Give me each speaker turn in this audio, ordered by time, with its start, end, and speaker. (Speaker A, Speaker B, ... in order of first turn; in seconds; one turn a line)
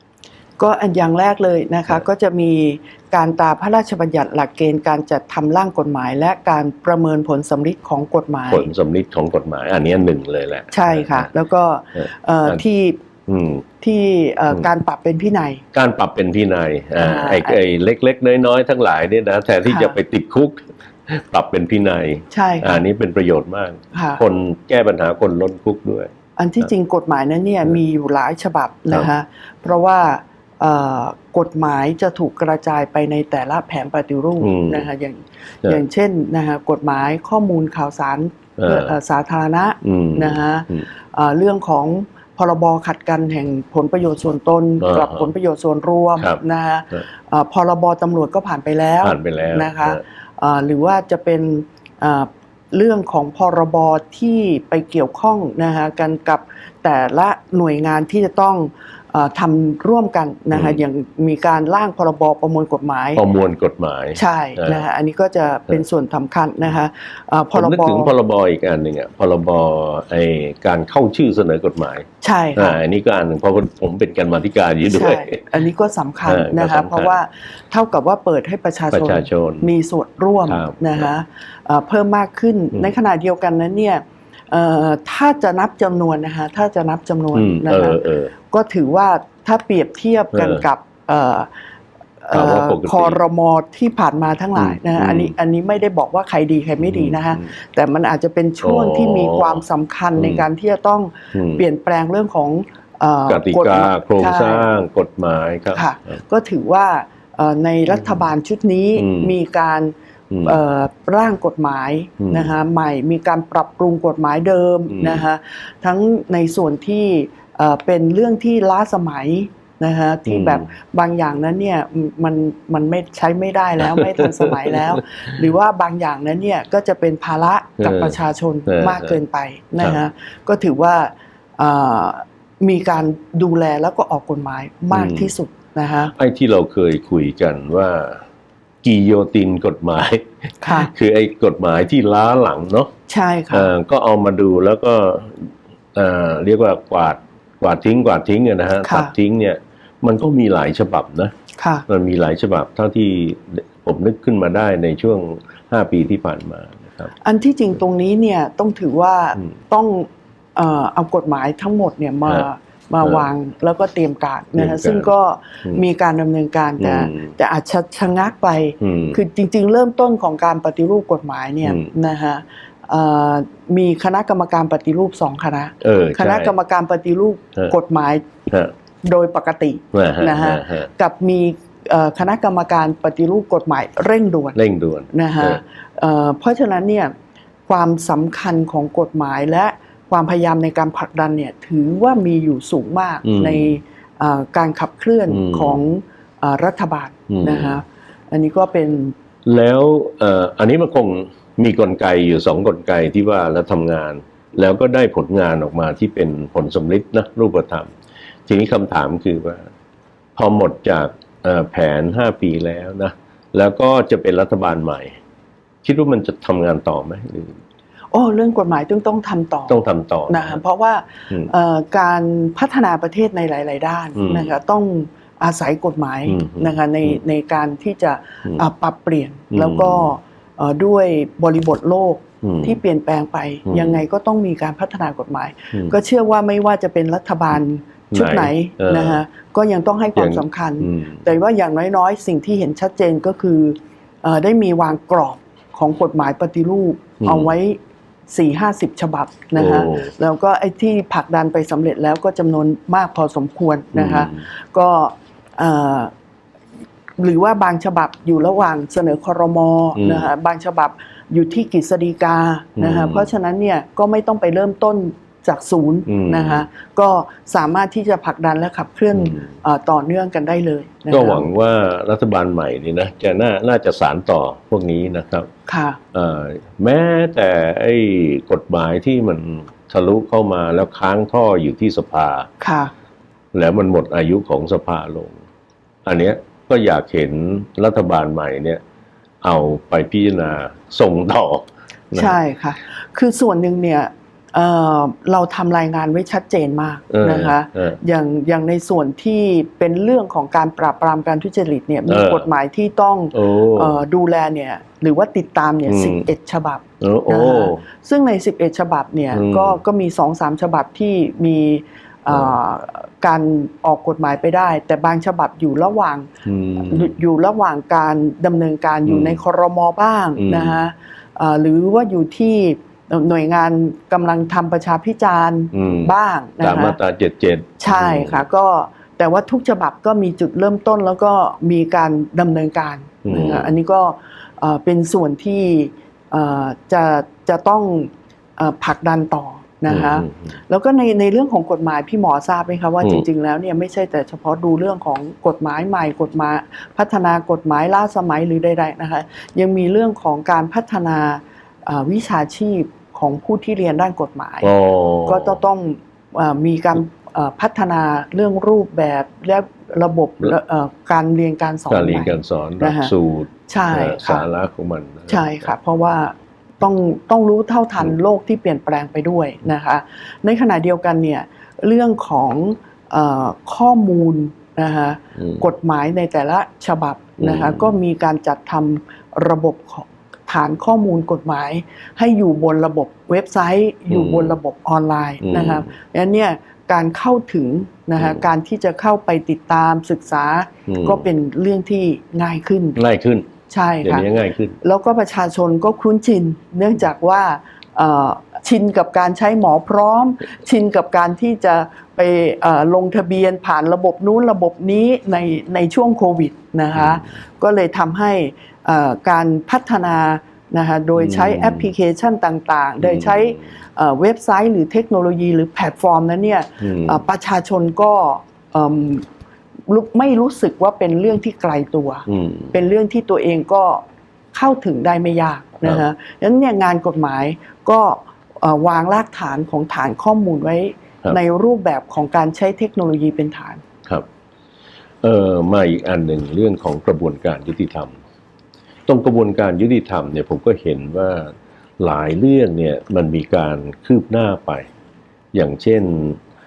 Speaker A: 0.6-8.7
Speaker B: 8.5-11.3
Speaker A: 10.7-13.0
Speaker B: 11.9-12.6
Speaker B: 13.3-13.6
Speaker A: 13.8-15.6
Speaker B: 15.7-26.1
Speaker A: 17.0-17.6
Speaker A: 19.6-20.0
Speaker A: 22.3-22.8
Speaker A: 23.9-24.2
Speaker A: 26.4-63.2
Speaker B: 34.4-34.9
Speaker B: 38.6-39.0
Speaker B: 39.8-40.8
Speaker B: 44.8-45.3
Speaker B: 49.0-50.0
Speaker B: 60.5-60.8
Speaker B: 63.1-64.8
Speaker A: 64.2-68.1
Speaker B: 67.5-75.6
Speaker A: 72.2-72.8
Speaker A: 74.8-88.0
Speaker B: 76.2-77.2
Speaker B: 78.9-79.7
Speaker B: 80.5-81.1
Speaker B: 87.3-88.3
Speaker A: 88.5-91.5
Speaker B: 90.3-90.6
Speaker A: 92.2-104.7
Speaker B: 92.3-93.2
Speaker B: 94.5-95.3
Speaker B: 96.8-97.5
Speaker B: 98.6-99.6
Speaker B: 100.2-100.5
Speaker B: 101.3-101.6
Speaker B: 103.3-106.2
Speaker A: 105.7-136.1
Speaker B: 108.0-108.2
Speaker B: 109.0-109.3
Speaker B: 110.3-110.5
Speaker B: 112.2-112.5
Speaker B: 114.9-115.3
Speaker B: 120.3-120.7
Speaker B: 123.8-125.3
Speaker B: 127.8-129.2
Speaker B: 134.9-135.3
Speaker B: 136.1-138.2
Speaker B: 138.8-142.9
Speaker A: 140.6-140.9
Speaker A: 143.1-143.7
Speaker B: 143.5-151.3
Speaker A: 148.8-149.1
Speaker A: 151.6-151.8
Speaker B: 151.9-157.1
Speaker A: 157.2-178.3
Speaker B: 164.5-165.1
Speaker B: 166.8-167.3
Speaker B: 168.8-169.2
Speaker B: 171.6-171.9
Speaker B: 175.8-176.5
Speaker B: 178.5-178.7
Speaker A: 179.0-184.6
Speaker B: 179.9-180.9
Speaker B: 184.5-185.6
Speaker A: 185.1-187.1
Speaker A: 187.7-199.1
Speaker B: 193.2-193.8
Speaker B: 195.3-195.8
Speaker B: 197.3-197.8
Speaker B: 199.4-207.9
Speaker B: 208.5-209.7
Speaker B: 210.3-215.2
Speaker B: 215.8-217.6
Speaker A: 218.1-247.8
Speaker B: 219.7-220.6
Speaker B: 224.1-224.5
Speaker B: 226.3-227.2
Speaker B: 229.5-230.1
Speaker B: 232.4-232.8
Speaker B: 233.7-234.0
Speaker B: 238.1-239.2
Speaker B: 240.2-241.2
Speaker B: 247.2-247.5
Speaker A: 248.3-256.1
Speaker B: 249.6-250.1
Speaker B: 253.9-254.4
Speaker A: 257.2-271.5
Speaker B: 259.9-260.3
Speaker B: 262.8-263.3
Speaker B: 266.1-266.7
Speaker B: 269.1-269.5
Speaker B: 271.1-275.5
Speaker A: 275.7-276.0
Speaker B: 276.1-282.5
Speaker A: 282.6-282.9
Speaker B: 283.5-285.4
Speaker B: 286.0-288.8
Speaker B: 289.4-292.3
Speaker A: 292.1-316.3
Speaker B: 297.1-298.0
Speaker B: 302.1-302.5
Speaker B: 303.3-303.9
Speaker B: 305.9-306.2
Speaker B: 307.0-307.8
Speaker B: 309.3-309.8
Speaker B: 312.3-312.5
Speaker B: 316.4-317.1
Speaker A: 316.8-327.0
Speaker B: 319.1-319.4
Speaker B: 320.4-320.8
Speaker B: 325.7-328.4
Speaker A: 327.8-354.7
Speaker B: 333.2-333.7
Speaker B: 339.9-340.4
Speaker B: 354.6-355.6
Speaker A: 355.3-363.1
Speaker B: 361.9-365.7
Speaker A: 363.7-364.4
Speaker A: 365.3-393.0
Speaker B: 375.4-375.6
Speaker B: 377.4-377.9
Speaker B: 384.1-384.5
Speaker B: 385.4-385.9
Speaker B: 388.2-388.4
Speaker B: 390.9-391.2
Speaker B: 392.9-393.5
Speaker A: 393.7-394.3
Speaker B: 394.0-394.8
Speaker A: 394.8-419.3
Speaker B: 406.9-407.2
Speaker B: 411.1-411.9
Speaker B: 413.0-413.7
Speaker B: 416.8-417.2
Speaker A: 419.9-433.8
Speaker B: 422.3-422.7
Speaker B: 435.2-438.2
Speaker B: 439.1-444.9
Speaker B: 445.5-446.4